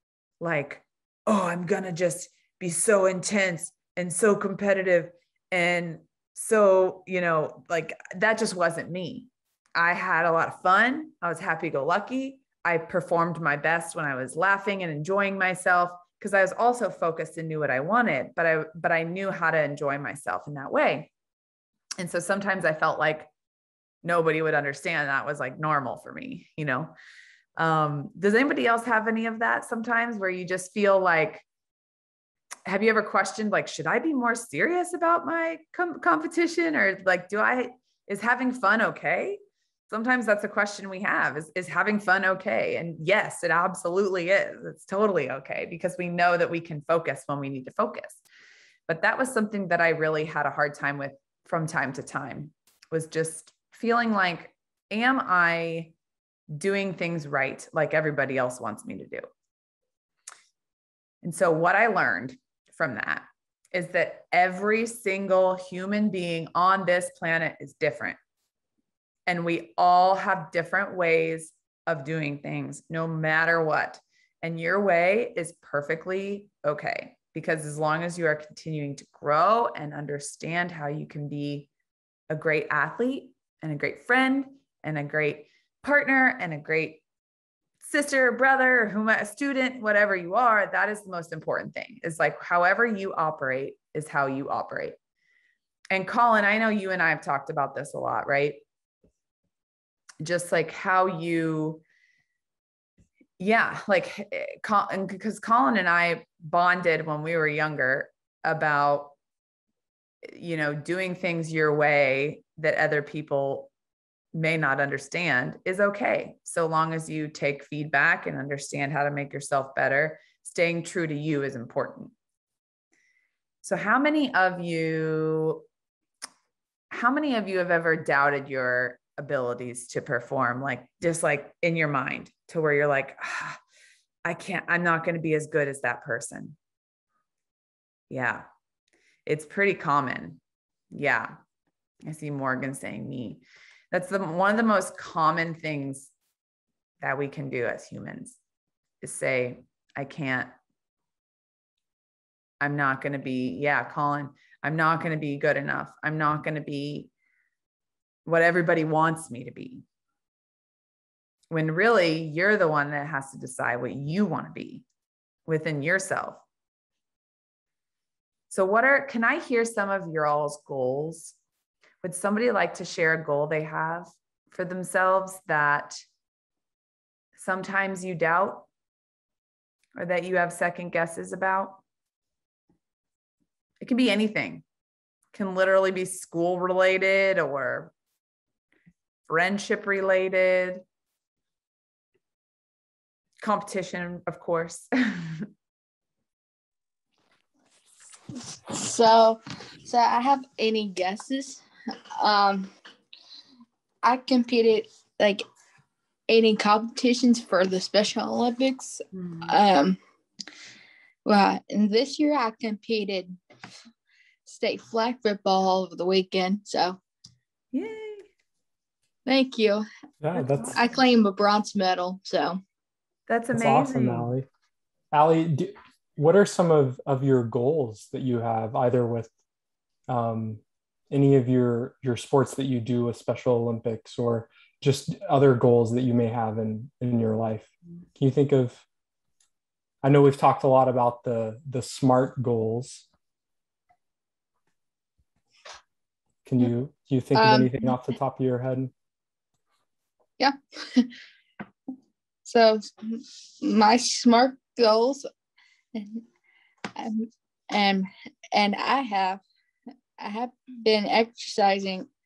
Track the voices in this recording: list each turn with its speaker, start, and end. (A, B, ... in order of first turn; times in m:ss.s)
0:00.4-0:21.1 A
0:22.0-0:23.3 A
0:24.0-0:26.9 A
0:27.6-0:31.4 A
0:32.6-0:48.2 A
0:48.9-0:55.9 A
0:56.5-0:59.2 A
1:01.2-1:08.2 A
1:09.3-1:21.7 A
1:22.3-1:27.0 A
1:27.8-1:35.0 A
1:35.9-1:38.6 A
1:40.2-1:41.8 A
1:43.4-1:49.1 A
1:50.2-1:53.7 A
1:54.3-2:02.1 A
2:03.6-2:05.6 A
2:06.9-2:13.6 A
2:14.2-2:16.6 A
2:18.1-2:18.4 A
2:19.2-2:20.4 A
2:20.9-2:21.3 A
2:22.0-2:26.1 A
2:27.0-2:28.4 A
2:29.0-2:30.5 A
2:32.6-2:37.1 A
2:38.2-2:39.8 A
2:41.5-2:44.8 A
2:45.4-2:46.4 A
2:48.5-2:51.4 A
2:52.0-2:56.0 A
2:57.4-2:58.7 A
3:00.0-3:01.8 A
3:03.8-3:04.6 A
3:05.3-3:07.9 A
3:09.3-3:10.8 A
3:13.4-3:15.5 A
3:18.5-3:21.6 B
3:22.2-3:22.7 B
3:24.0-3:25.4 B
3:26.3-3:30.0 B
3:29.1-3:29.5 A
3:31.2-3:33.4 B
3:34.4-3:37.0 B
3:37.7-3:38.2 A
3:39.2-3:39.8 B
3:40.2-3:40.8 C
3:40.4-3:42.6 B
3:40.5-3:40.7 A
3:43.3-3:44.3 A
3:43.5-3:44.4 C
3:45.1-3:49.3 C
3:50.1-3:58.8 C
4:00.0-4:03.0 C
4:06.4-4:08.9 C
4:07.3-4:08.0 B
4:10.4-4:11.1 B
4:12.4-4:15.3 B
4:15.9-4:16.2 B
4:17.0-4:19.4 B
4:20.2-4:22.1 B